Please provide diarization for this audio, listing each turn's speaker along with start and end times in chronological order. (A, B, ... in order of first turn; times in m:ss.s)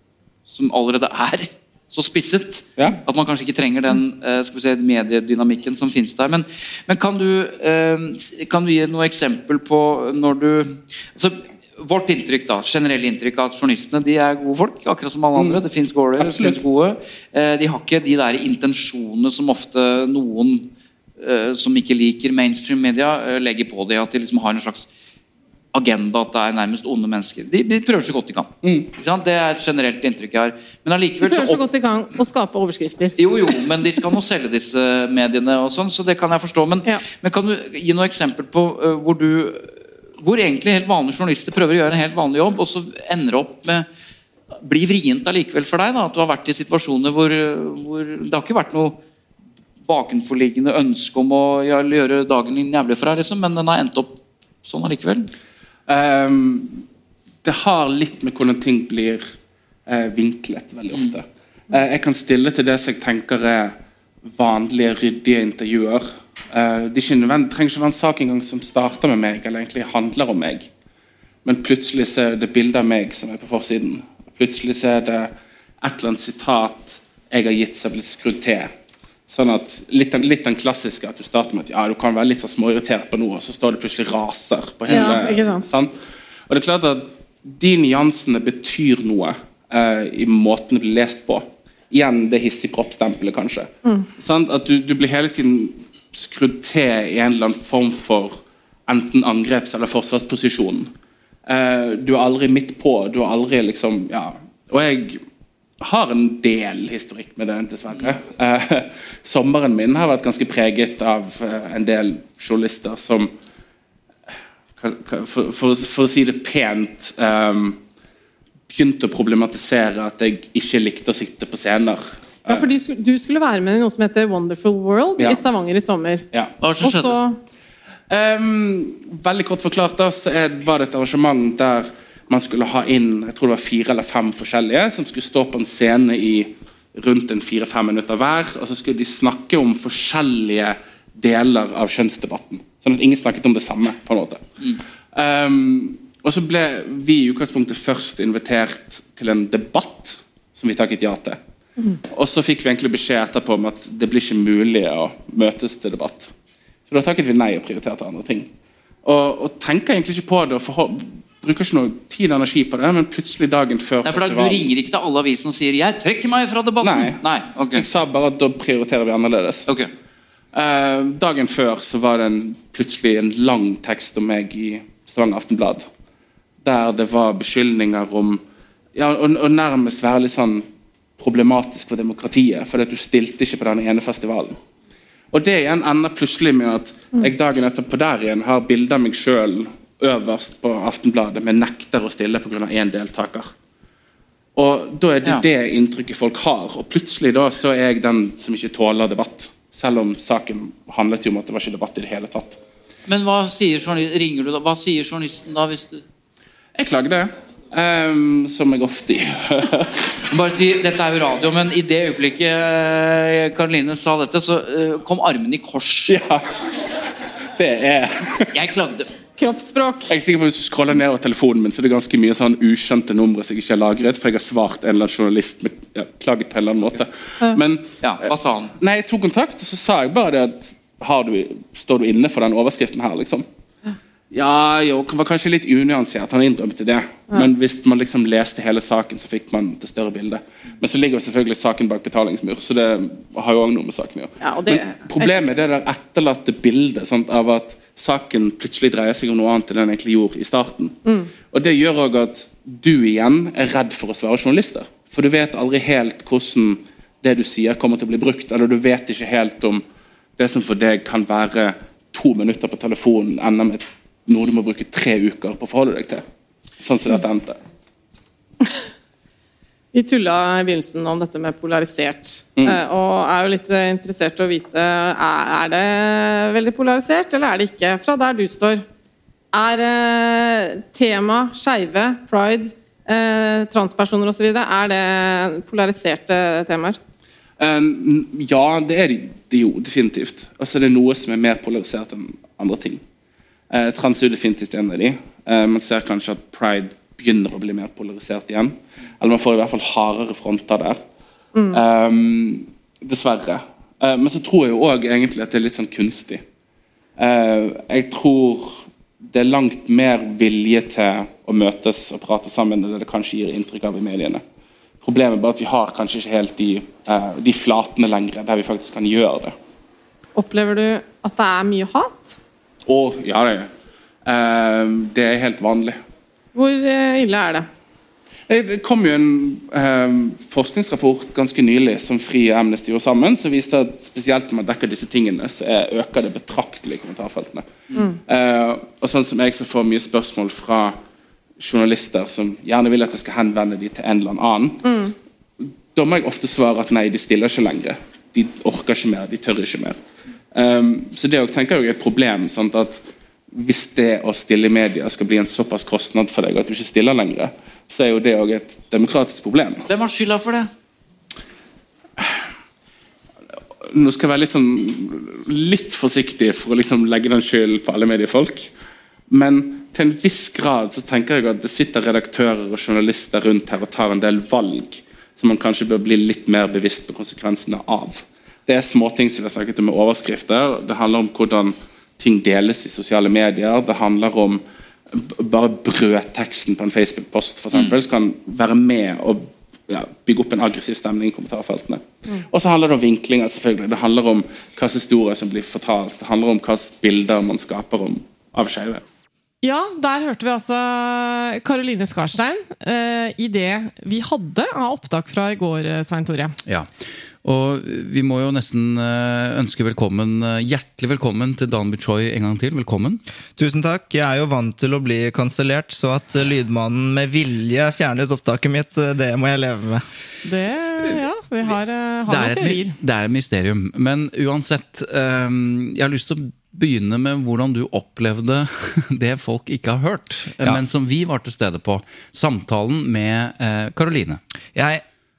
0:00.5-0:20.7 A
0:15.4-0:15.6 B
0:16.2-0:16.6 B
0:21.2-0:24.9 A
0:25.7-0:31.6 A
0:31.2-0:33.2 C
0:33.2-0:43.9 A
0:44.6-0:49.0 A
0:49.8-0:55.3 A
0:55.9-0:56.8 B
0:57.4-0:59.2 B
0:59.9-1:10.7 B
1:11.4-1:15.3 B
1:15.8-1:18.7 B
1:19.3-1:25.9 B
1:24.9-1:25.8 C
1:26.5-1:40.9 B
1:41.5-1:45.2 B
1:45.8-1:53.3 B
1:54.8-1:57.8 B
1:58.7-2:02.7 B
2:02.5-2:06.2 C
2:05.2-2:05.4 B
2:06.6-2:07.2 A
2:06.8-2:07.4 C
2:08.1-2:24.4 B
2:25.1-2:31.4 B
2:32.1-2:36.3 B
2:36.9-2:38.5 B
2:39.0-2:44.7 B
2:44.0-2:47.9 A
2:46.8-2:47.2 B
2:47.7-2:49.7 B
2:50.5-2:55.9 B
2:56.6-2:58.4 B
2:59.0-3:00.6 B
3:01.2-3:04.6 B
3:05.3-3:13.5 B
3:14.6-3:22.6 B
3:23.1-3:26.0 A
3:26.8-3:30.0 B
3:30.3-3:36.2 A
3:36.1-3:36.6 B
3:37.6-3:38.5 B
3:38.5-3:39.1 A
3:39.4-3:40.2 C
3:40.1-3:53.4 B
3:48.0-3:48.7 A
3:54.3-4:11.0 B
4:04.4-4:05.4 C
4:11.5-4:19.8 B
4:20.4-4:26.2 B
4:26.8-4:27.6 B
4:29.9-4:38.8 C
4:39.5-4:47.0 C
4:47.6-4:53.0 B
4:53.7-5:01.0 B
5:01.6-5:01.8 C
5:01.7-5:06.4 B
5:07.2-5:14.4 B
5:15.0-5:19.5 B
5:20.4-5:22.4 C
5:22.9-5:23.7 B
5:24.2-5:26.0 B
5:26.6-5:27.7 C
5:28.5-5:37.7 B
5:38.3-5:41.0 B
5:41.6-5:44.9 B
5:44.8-5:45.1 C
5:45.9-5:50.0 B
5:50.5-5:59.9 B
5:59.9-6:00.7 A
6:03.9-6:08.7 B
6:09.3-6:24.6 B
6:25.1-6:39.0 B
6:39.6-6:46.6 C
6:47.4-6:53.2 D
6:53.6-7:00.0 E
7:00.4-7:03.0 C
7:02.3-7:14.4 D
7:14.8-7:15.0 E